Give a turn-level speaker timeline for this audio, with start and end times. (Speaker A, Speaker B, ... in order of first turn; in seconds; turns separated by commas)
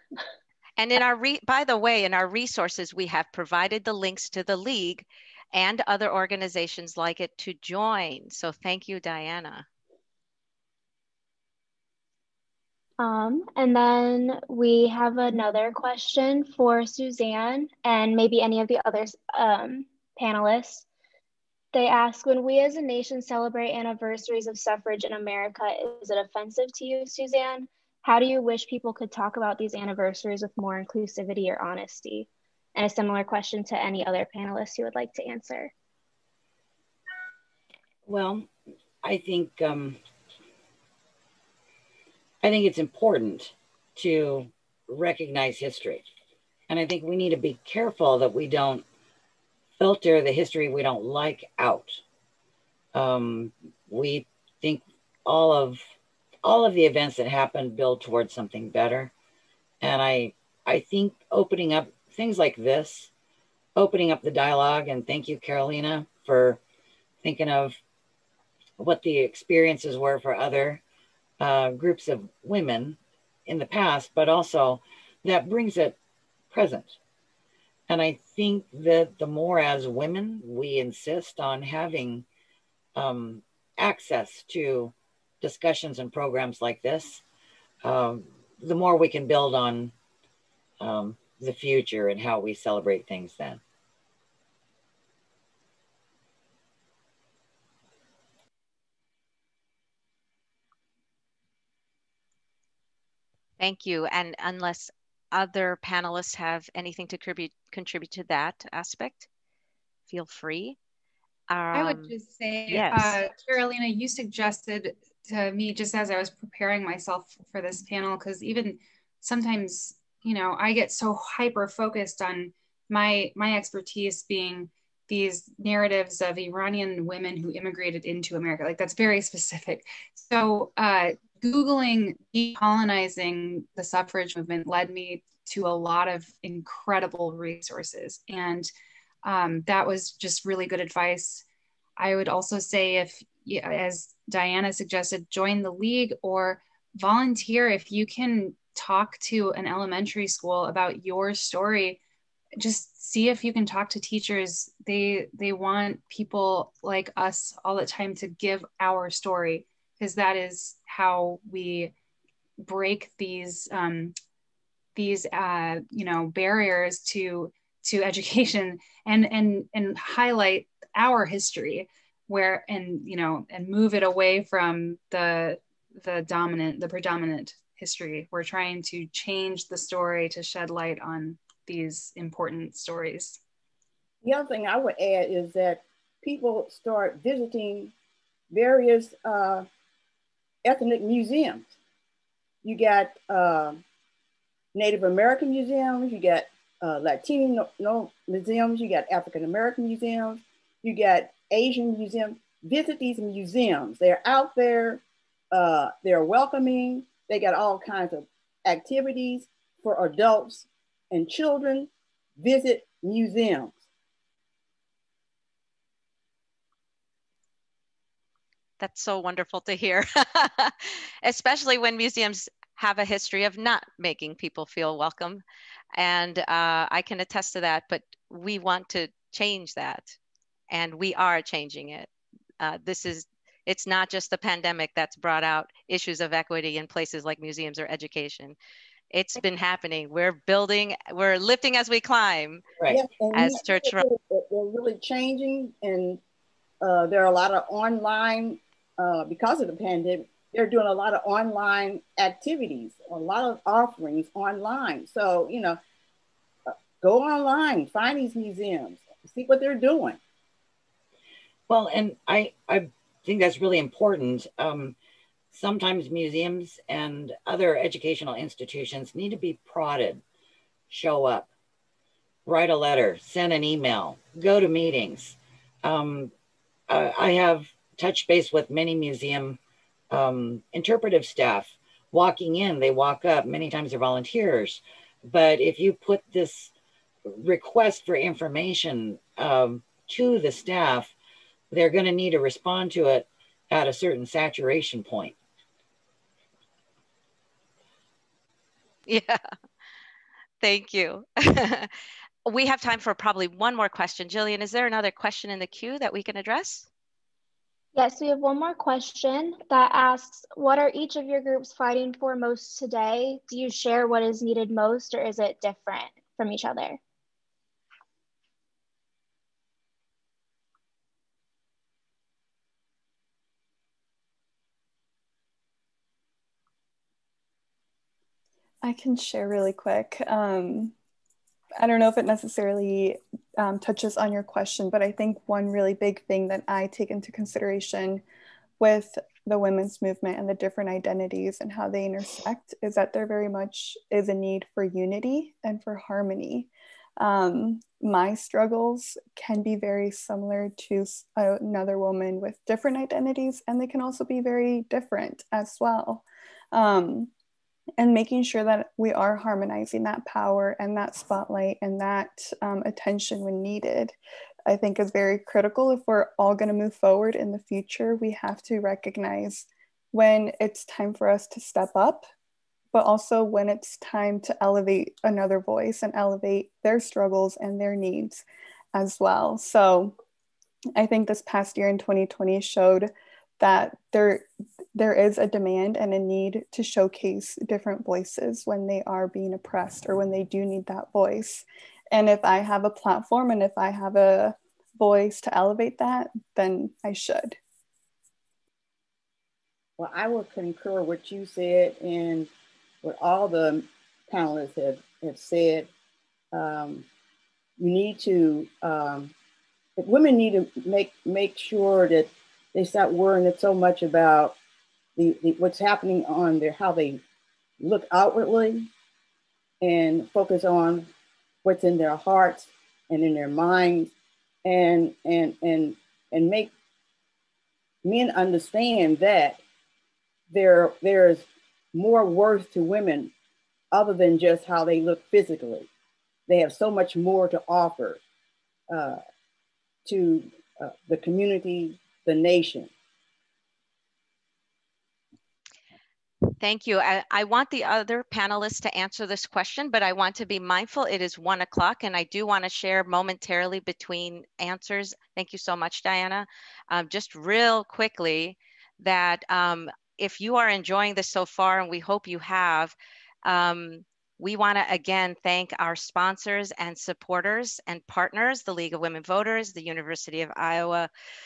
Speaker A: 0.8-9.7, Speaker B: 13.0-20.9, Speaker B: 21.7-35.7, Speaker C: 38.1-38.5, Speaker C: 39.0-40.0, Speaker C: 42.4-46.1, Speaker C: 46.7-48.9, Speaker C: 49.8-52.0, Speaker C: 52.9-55.8, Speaker C: 56.4-59.1, Speaker C: 59.8-63.1, Speaker C: 63.8-66.6, Speaker C: 67.2-67.8, Speaker C: 68.8-70.8, Speaker C: 71.4-76.0, Speaker C: 76.5-77.0, Speaker C: 77.9-82.2, Speaker C: 83.0-87.2, Speaker C: 87.8-89.9, Speaker C: 90.8-93.6, Speaker A: 103.6-109.3, Speaker A: 110.1-110.8, Speaker A: 111.5-112.1, Speaker D: 111.7-138.7, Speaker A: 112.7-113.2, Speaker D: 139.2-141.4, Speaker D: 142.0-152.0, Speaker D: 152.6-161.9, Speaker D: 162.6-164.1, Speaker D: 164.9-183.4, Speaker E: 184.2-187.9, Speaker E: 188.5-189.7, Speaker E: 190.6-191.7, Speaker E: 192.6-193.8, Speaker E: 194.7-213.8, Speaker A: 218.8-225.4, Speaker A: 225.9-230.2, Speaker A: 230.7-232.1, Speaker A: 232.6-238.6, Speaker A: 239.1-242.7, Speaker E: 242.9-246.2, Speaker A: 243.3-244.0, Speaker E: 246.8-255.8, Speaker E: 256.7-260.2, Speaker C: 261.7-264.9, Speaker C: 265.5-270.2, Speaker C: 270.9-271.5, Speaker C: 272.4-276.3, Speaker C: 276.9-279.6, Speaker C: 280.1-286.7, Speaker C: 287.3-291.1, Speaker C: 291.7-295.4, Speaker A: 299.1-299.4, Speaker A: 300.6-301.9, Speaker A: 302.4-306.9, Speaker B: 307.9-317.0, Speaker F: 328.8-330.9, Speaker F: 331.8-338.2, Speaker F: 338.8-357.3, Speaker F: 358.0-364.1, Speaker F: 364.7-372.2, Speaker F: 372.9-380.1, Speaker F: 380.9-397.6, Speaker E: 400.0-402.5, Speaker E: 403.0-405.9, Speaker E: 406.5-407.1, Speaker E: 407.8-409.3, Speaker E: 410.0-414.6, Speaker E: 415.2-417.2, Speaker E: 417.8-418.9, Speaker E: 419.8-421.1, Speaker E: 421.6-424.1, Speaker E: 424.6-426.7, Speaker E: 428.0-429.6, Speaker E: 430.5-433.3, Speaker E: 433.9-435.9, Speaker E: 436.5-438.2, Speaker E: 438.9-439.2, Speaker E: 440.1-442.9, Speaker A: 446.6-471.1